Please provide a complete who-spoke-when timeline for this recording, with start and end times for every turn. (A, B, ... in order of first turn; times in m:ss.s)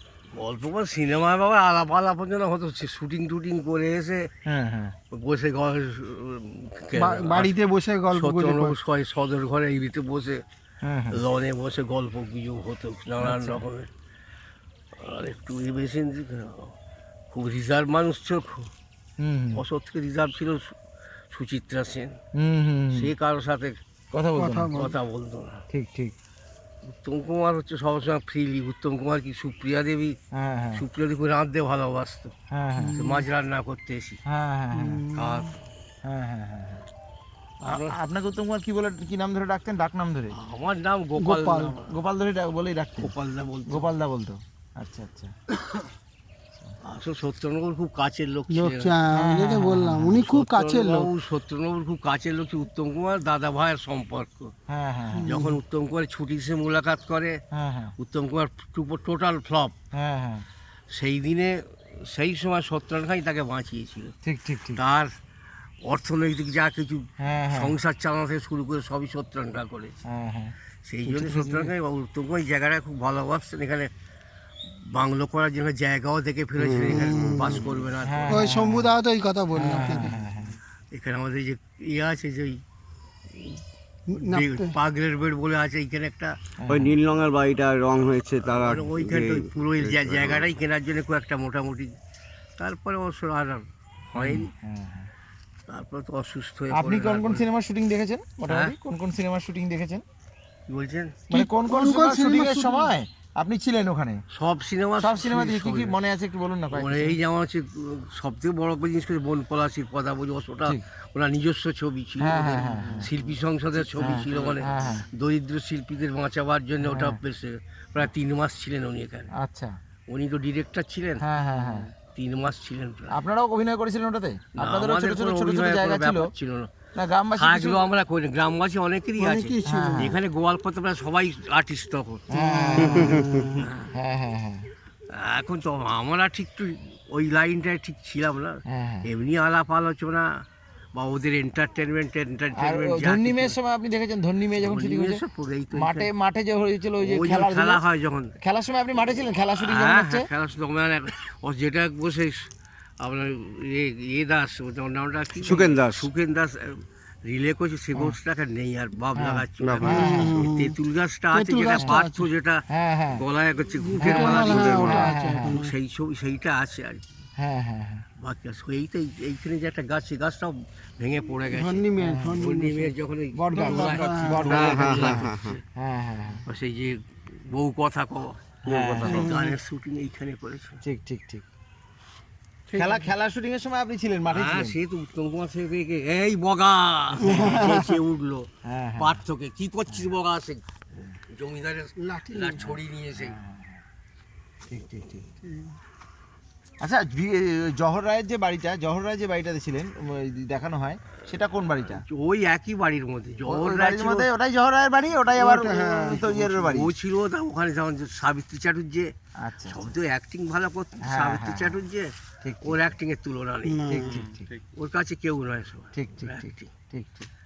0:00.3-0:04.3 A
0:04.5-0:04.9 B
0:05.1-0:10.4 A
0:07.0-0:08.8 C
0:10.8-0:11.2 B
0:11.1-0:13.9 A
0:13.2-0:13.6 B
0:14.9-0:16.8 A
0:17.3-0:18.7 A
0:19.2-0:19.6 B
0:19.5-0:20.8 A
0:21.3-0:22.2 A
0:22.3-0:23.1 B
0:22.9-0:23.8 A
0:24.1-0:24.7 B
0:24.4-0:24.9 C
0:24.7-0:25.6 A
0:25.7-0:26.1 B
0:26.8-0:30.2 A
0:30.3-0:30.8 B
0:30.7-0:32.3 A
0:32.5-0:33.0 B
0:32.8-0:33.2 C
0:32.9-0:34.2 A
0:34.3-0:35.0 B
0:34.7-0:35.4 C
0:35.1-0:35.6 A
0:36.0-0:36.8 B
0:37.6-0:38.0 A
0:37.6-0:40.3 B
0:40.3-0:42.0 A
0:41.2-0:41.8 C
0:41.8-0:43.1 B
0:43.0-0:43.9 A
0:43.7-0:45.3 B
0:46.8-0:49.0 A
0:48.5-0:51.1 C
0:49.1-0:50.2 B
0:50.1-0:54.5 A
0:54.7-0:55.4 B
0:55.1-0:55.5 C
0:55.2-0:57.4 A
0:57.5-0:57.9 B
0:58.0-0:59.7 A
0:59.9-1:00.4 B
1:00.9-1:04.1 A
1:04.2-1:04.8 B
1:04.7-1:05.1 A
1:05.8-1:10.0 A
1:07.2-1:07.7 B
1:10.1-1:10.5 B
1:10.8-1:13.9 A
1:11.1-1:11.7 B
1:14.7-1:18.6 A
1:16.6-1:16.9 D
1:16.9-1:17.6 C
1:18.0-1:18.9 B
1:18.2-1:20.2 C
1:19.5-1:20.6 B
1:20.9-1:22.6 A
1:23.3-1:26.4 A
1:24.1-1:24.7 C
1:26.6-1:27.0 B
1:26.7-1:30.4 D
1:28.4-1:31.9 A
1:32.6-1:34.5 A
1:34.1-1:35.1 B
1:35.7-1:37.5 A
1:36.7-1:40.0 B
1:38.5-1:38.8 A
1:40.7-1:41.2 A
1:41.3-1:42.9 C
1:41.3-1:44.2 B
1:44.3-1:46.0 A
1:45.0-1:47.2 B
1:46.7-1:59.3 A
1:52.2-1:53.1 B
1:54.0-1:55.1 B
1:56.8-1:57.2 B
1:59.4-1:59.7 B
2:00.1-2:01.2 A
2:01.2-2:01.9 B
2:02.0-2:03.2 A
2:03.1-2:06.3 B
2:04.6-2:06.7 A
2:07.0-2:07.8 B
2:07.4-2:12.2 A
2:09.2-2:10.1 C
2:09.6-2:10.2 B
2:12.3-2:13.3 B
2:12.3-2:13.6 C
2:12.8-2:13.9 A
2:13.9-2:14.7 B
2:15.1-2:20.3 A
2:18.7-2:19.1 B
2:20.9-2:23.6 A
2:22.6-2:27.8 B
2:24.6-2:26.1 A
2:27.0-2:28.3 A
2:28.4-2:30.3 B
2:29.6-2:47.1 A
2:35.4-2:36.1 D
2:39.2-2:40.4 B
2:39.6-2:40.5 D
2:39.8-2:40.7 C
2:41.3-2:42.3 C
2:42.7-2:43.2 B
2:43.8-2:45.7 C
2:44.0-2:45.6 B
2:47.4-2:48.1 B
2:48.2-2:55.6 A
2:51.5-2:52.9 C
2:52.0-2:52.4 B
2:53.4-2:56.4 B
2:53.5-2:54.6 C
2:54.5-2:55.5 D
2:56.4-3:00.8 A
2:58.6-2:59.3 B
2:59.0-2:59.5 C
3:00.8-3:01.4 B
3:02.7-3:03.1 C
3:02.7-3:04.8 B
3:04.3-3:10.6 A
3:07.2-3:07.8 C
3:08.6-3:09.2 B
3:11.3-3:13.4 A
3:12.0-3:12.6 C
3:13.2-3:13.8 B
3:14.7-3:15.2 B
3:14.8-3:15.2 A
3:15.4-3:15.7 C
3:16.8-3:22.0 B
3:21.8-3:24.3 A
3:23.5-3:26.9 B
3:25.3-3:26.5 C
3:26.6-3:29.1 A
3:29.4-3:29.9 B
3:29.6-3:32.1 A
3:31.0-3:31.8 B
3:32.4-3:32.8 B
3:32.6-3:36.7 A
3:33.7-3:34.3 C
3:33.9-3:34.5 B
3:36.0-3:37.3 B